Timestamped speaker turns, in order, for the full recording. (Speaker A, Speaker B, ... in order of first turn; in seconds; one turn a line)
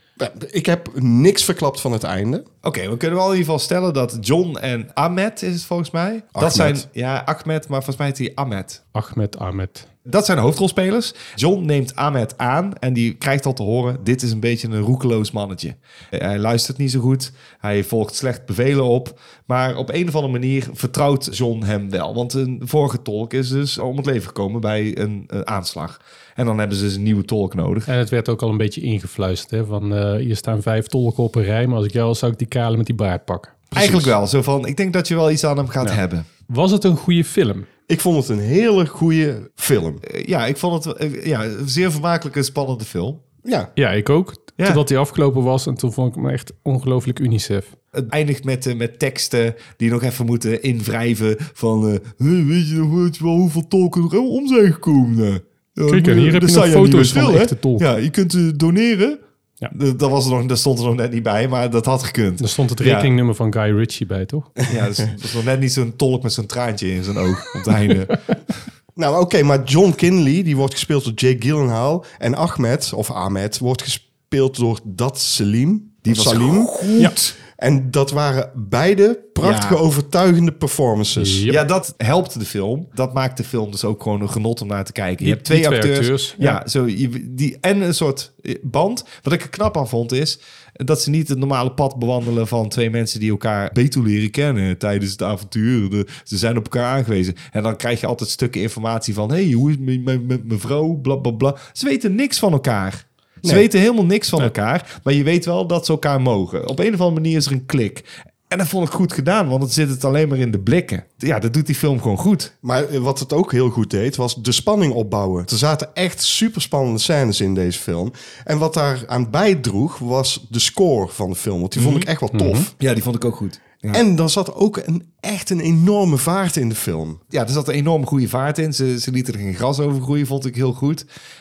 Speaker A: 0.2-2.5
Speaker B: 2.6-8.8
Speaker A: 6.3-6.8
Speaker C: 8.9-9.9
Speaker B: 10.0-27.9
Speaker C: 27.9-33.6
Speaker B: 33.7-36.3
Speaker A: 33.7-34.1
Speaker C: 35.8-37.7
Speaker A: 37.9-40.0
Speaker B: 40.0-43.2
Speaker A: 43.4-43.7
Speaker C: 43.8-47.7
Speaker B: 47.9-63.1
Speaker C: 55.9-57.9
Speaker C: 62.4-64.5
Speaker B: 64.7-68.2
Speaker A: 69.0-81.4
Speaker B: 76.0-77.3
Speaker B: 79.4-79.8
Speaker C: 81.2-81.6
Speaker B: 81.5-112.5
Speaker C: 85.2-86.6
Speaker A: 112.6-122.7
Speaker B: 121.8-122.1
Speaker C: 122.3-122.7
Speaker B: 122.8-124.0
Speaker A: 123.9-127.2
Speaker B: 127.3-131.0